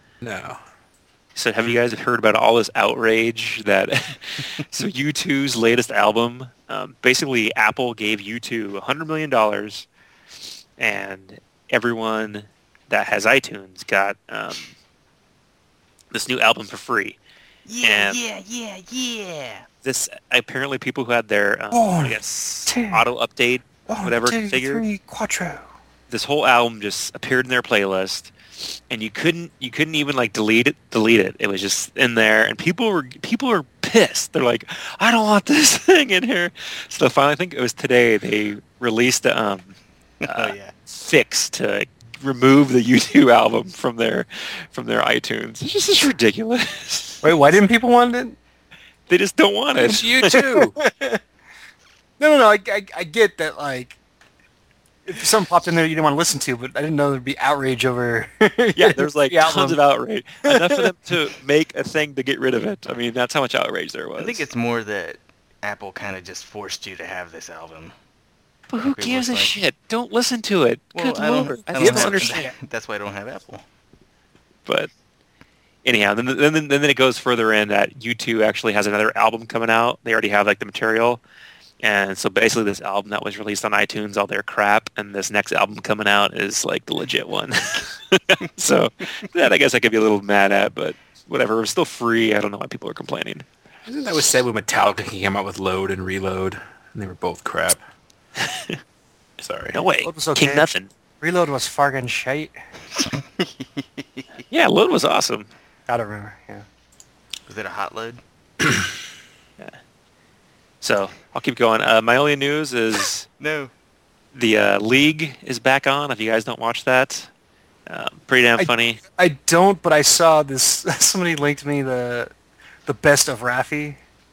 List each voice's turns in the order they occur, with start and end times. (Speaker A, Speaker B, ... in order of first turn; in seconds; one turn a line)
Speaker A: 0.2-0.6
Speaker B: 1.4-9.8
Speaker B: 10.8-14.7
Speaker B: 16.1-17.2
Speaker C: 17.6-19.6
Speaker B: 17.8-18.2
Speaker B: 19.8-24.8
Speaker D: 21.7-23.0
Speaker D: 23.9-25.6
Speaker B: 26.1-47.2
Speaker C: 40.2-40.7
Speaker D: 47.2-48.4
Speaker B: 49.1-50.4
Speaker A: 49.8-50.7
Speaker D: 50.2-51.2
Speaker D: 52.2-54.0
Speaker D: 55.1-59.8
Speaker B: 58.8-64.4
Speaker D: 60.5-60.9
Speaker C: 64.2-67.9
Speaker B: 68.7-72.5
Speaker C: 68.8-69.5
Speaker C: 70.9-73.6
Speaker D: 71.8-72.3
Speaker B: 75.8-81.2
Speaker B: 81.8-93.4
Speaker A: 93.8-97.8
Speaker B: 98.4-98.8
Speaker A: 99.4-99.8
Speaker B: 99.7-100.9
Speaker D: 100.0-100.7
Speaker D: 101.2-102.5
Speaker C: 102.9-104.3
Speaker B: 104.5-105.5
Speaker D: 105.9-106.6
Speaker C: 107.5-108.2
Speaker B: 110.8-113.3
Speaker C: 113.4-113.7
Speaker B: 114.3-117.3
Speaker B: 117.9-119.0
Speaker D: 118.6-122.3
Speaker D: 122.8-124.0